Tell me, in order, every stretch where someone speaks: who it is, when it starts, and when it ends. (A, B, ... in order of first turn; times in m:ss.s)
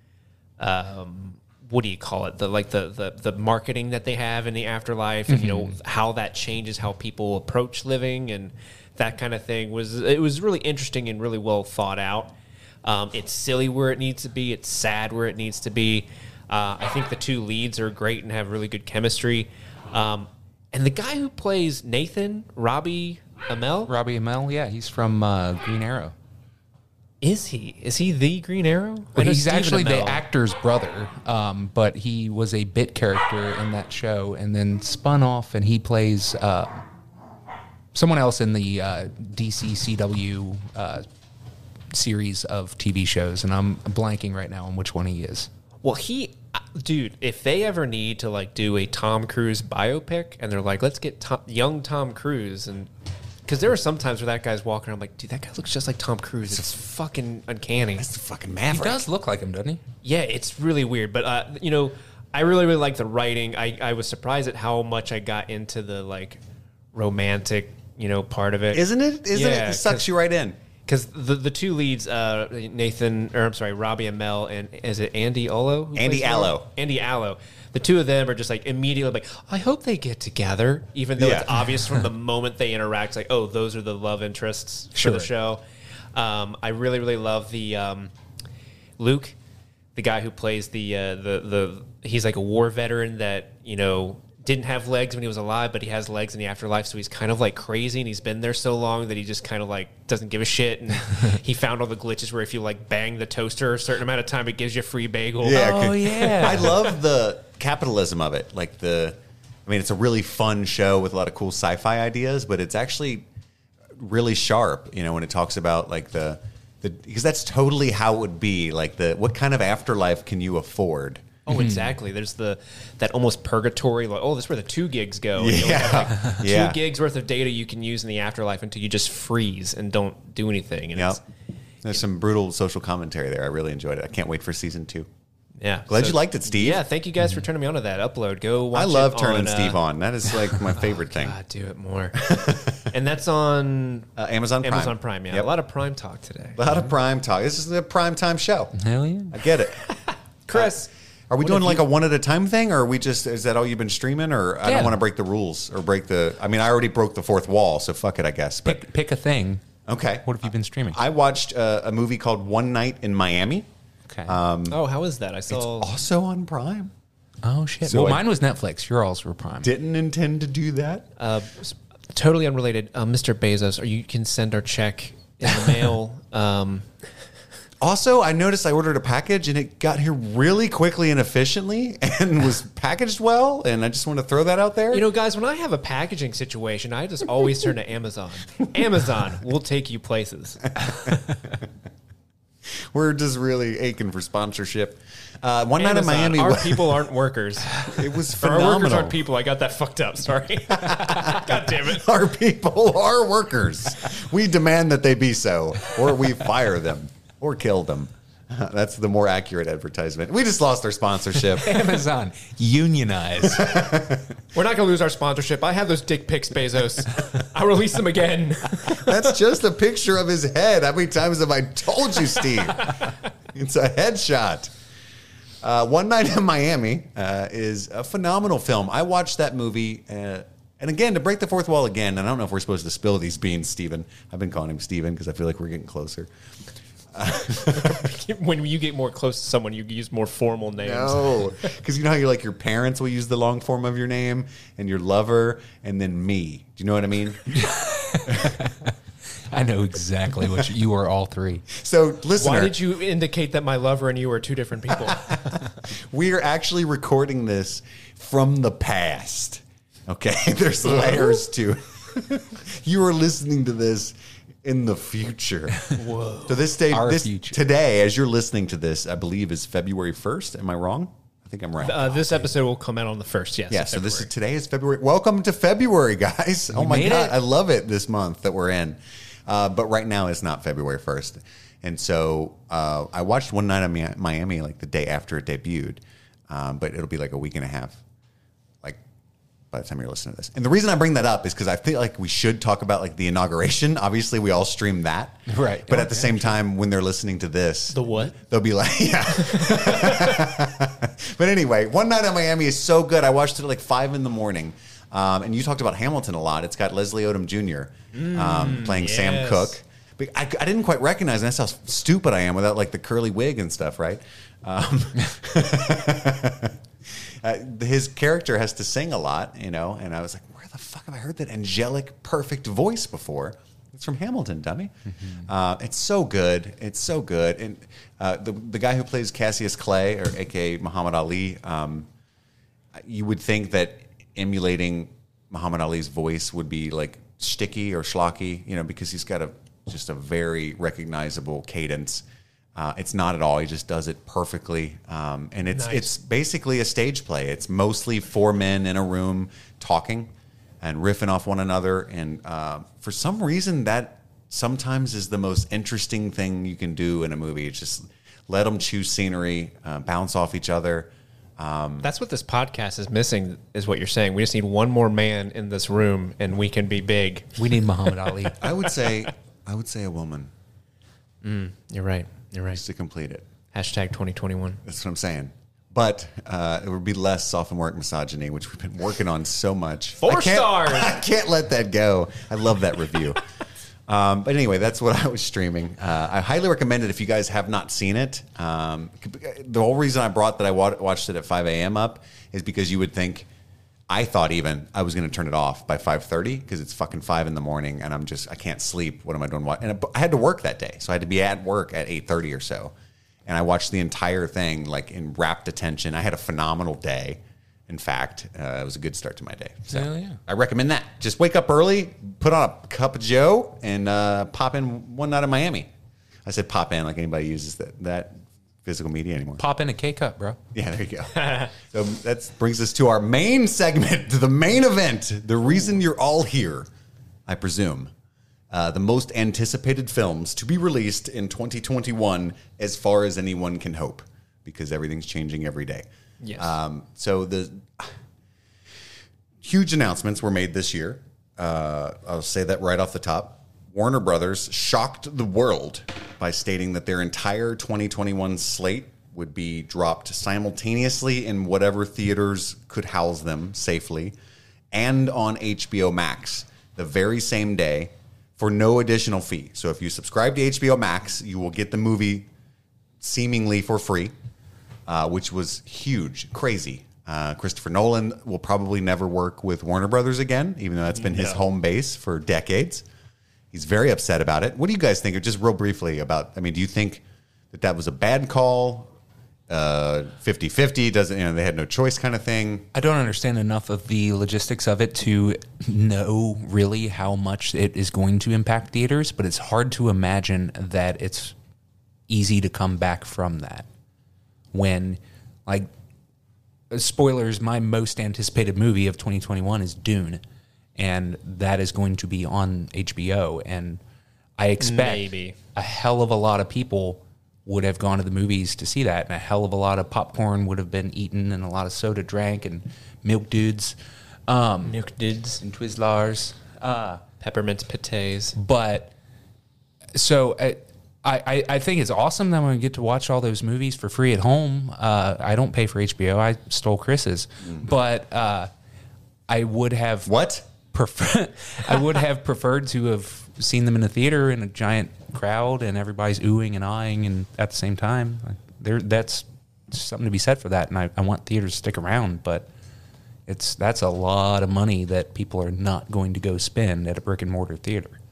0:00.6-0:12.3 A
0:05.3-0:05.8 B
0:12.8-0:23.9 A
0:23.9-0:26.2 B
0:27.2-0:30.2 A
0:29.2-0:36.8 B
0:37.9-0:41.0 B
0:41.9-0:45.5 B
0:45.8-0:52.9 A
0:53.5-0:58.1 A
0:58.0-0:59.0 C
0:58.7-0:59.8 B
1:00.0-1:06.4 A
1:06.9-1:10.1 A
1:08.7-1:10.6 C
1:10.9-1:25.6 A
1:16.0-1:16.7 C
1:21.2-1:21.6 C
1:25.0-1:25.3 B
1:26.2-1:28.1 A
1:29.0-1:29.4 A
1:30.0-1:46.8 A
1:45.4-1:53.3 C
1:45.5-1:46.8 B
1:54.0-2:01.4 C
2:01.5-2:11.2 A
2:01.5-2:01.9 B
2:05.4-2:06.8 C
2:11.8-2:15.1 C
2:15.6-2:19.8 A
2:15.9-2:16.8 C
2:18.7-2:21.4 C
2:20.6-2:24.1 A
2:22.2-2:22.9 C
2:24.2-2:25.5 C
2:24.6-2:26.6 A
2:26.6-2:28.8 C
2:28.8-2:29.4 B
2:29.3-2:29.8 C
2:30.5-2:31.8 A
2:31.3-2:38.8 C
2:34.6-2:35.0 B
2:38.6-2:39.6 B
2:39.9-2:43.7 C
2:40.2-2:41.0 B
2:44.1-2:44.4 B
2:44.3-2:44.8 C
2:44.7-2:45.9 A
2:45.5-2:46.9 C
2:47.4-2:49.7 B
2:47.8-2:48.2 C
2:49.6-2:51.1 C
2:51.2-2:56.9 A
2:57.8-3:05.1 C
3:04.9-3:11.1 A
3:10.8-3:11.2 C
3:12.9-3:17.0 C
3:15.8-3:22.1 A
3:17.9-3:19.2 C
3:20.7-3:31.8 C
3:31.4-3:33.8 B
3:33.4-3:34.4 C
3:34.5-3:39.2 A
3:38.8-3:44.7 C
3:45.6-3:56.3 C
3:57.1-3:58.1 C
3:57.5-4:01.5 A
4:00.8-4:07.5 C
4:07.5-4:08.9 B
4:09.5-4:11.7 B
4:11.7-4:12.8 C
4:12.4-4:15.4 A
4:15.1-4:32.4 C
4:26.0-4:26.6 A
4:26.9-4:27.6 B
4:31.8-4:34.3 A
4:33.7-4:48.0 C
4:36.7-4:37.4 B
4:49.7-5:32.1 C
4:55.5-4:56.5 B
4:57.9-4:58.3 A
4:59.5-5:00.4 A
5:08.1-5:09.7 A
5:32.9-6:02.1 C
5:45.7-5:46.1 A
6:02.0-6:07.6 A
6:07.6-6:08.6 B
6:08.6-6:10.5 C
6:11.4-6:12.8 A
6:12.7-6:13.5 C
6:13.7-6:14.8 A
6:14.8-6:23.4 C
6:20.2-6:21.2 A
6:24.1-6:33.5 C
6:34.1-6:42.9 C
6:43.5-6:55.9 C
6:49.9-6:50.4 B
6:56.4-6:59.6 C
6:59.6-7:00.6 B
7:00.7-7:06.9 C
7:01.4-7:01.7 A
7:07.5-7:08.1 C
7:08.7-7:16.1 C
7:16.4-7:16.7 A
7:16.6-7:18.1 C
7:19.6-7:34.4 C
7:34.9-7:42.5 C
7:43.2-7:44.3 C
7:45.1-7:53.0 C
7:53.7-7:59.1 C
7:59.7-8:02.9 C
8:02.9-8:11.6 B
8:12.3-8:13.9 B
8:14.7-8:15.9 B
8:16.9-8:20.4 B
8:21.0-8:24.0 B
8:24.6-8:34.0 B
8:24.8-8:25.6 A
8:34.5-8:35.0 B
8:34.8-8:35.6 A
8:35.6-8:37.2 B
8:37.4-8:38.6 A
8:38.6-8:39.1 B
8:40.2-8:48.7 B
8:49.5-8:50.3 B
8:50.3-8:50.7 C
8:50.9-9:02.7 B
9:03.5-9:08.2 B